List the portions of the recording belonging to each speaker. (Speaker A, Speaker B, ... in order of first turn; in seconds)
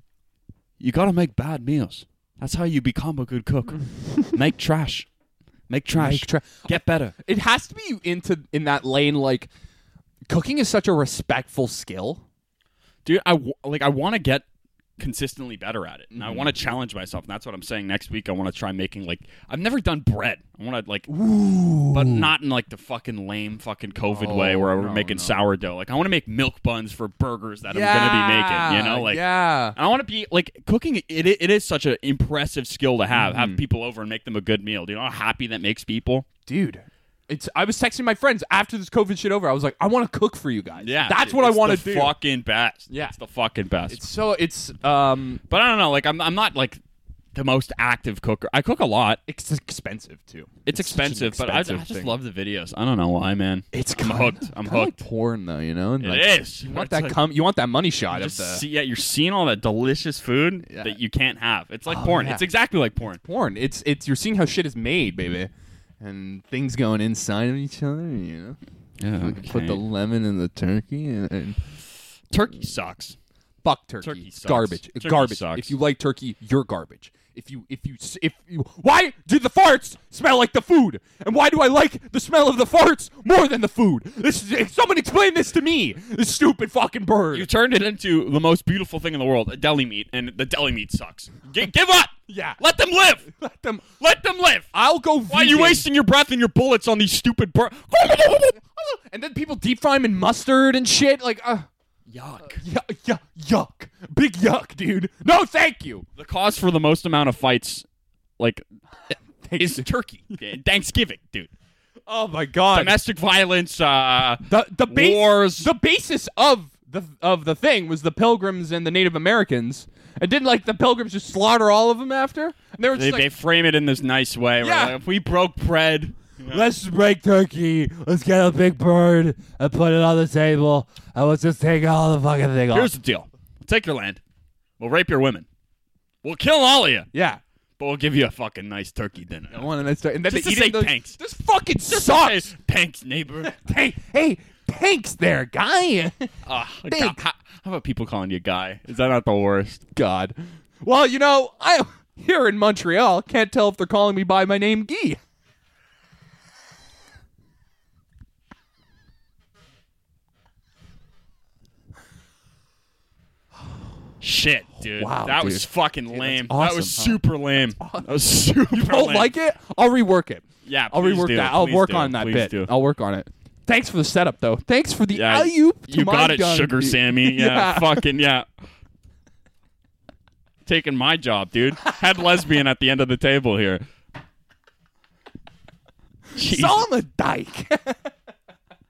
Speaker A: 0.8-5.1, 5.7-7.2, 13.1-14.4, 15.0-21.1, 21.9-36.3, 40.8-44.0, 45.5-46.8, 47.3-49.2, 50.7-55.0, 56.0-57.2, 58.1-63.2, 69.0-69.8, 72.3-73.2, 74.0-75.8, 87.3-93.3, 94.0-94.7, 95.3-98.6, 102.1-102.6, 106.2-107.8, 108.4-108.6, 109.6-111.5, 112.7-115.7, 123.0-126.6, 132.7-134.2, 134.8-135.5, 136.2-137.1, 137.8-139.7, 140.3-141.2, 141.9-143.6, 146.5-149.8, 164.2-169.3, 170.7-172.7, 175.1-178.5, 180.7-183.8, 186.3-186.8
Speaker B: 5.9-9.5, 10.3-12.2, 16.1-16.5, 21.1-22.3, 24.1-25.4, 27.7-29.8, 33.1-33.6, 36.5-42.2, 42.9-43.1, 43.9-45.4, 49.3-52.1, 53.7-58.6, 60.7-61.0, 61.9-62.4, 63.1-65.5, 66.0-68.6, 69.2-71.6, 73.6-87.5, 92.3-92.6, 93.3-93.9, 94.7-95.9, 98.7-101.7, 102.4-106.1, 109.5-109.9, 112.1-113.0, 114.5-123.3, 124.6-125.0, 126.5-132.9, 137.1-137.4, 139.5-142.5, 143.5-146.3, 146.9-147.2, 149.9-155.2, 165.0-167.3, 167.8-168.1, 168.7-178.1, 186.4-188.1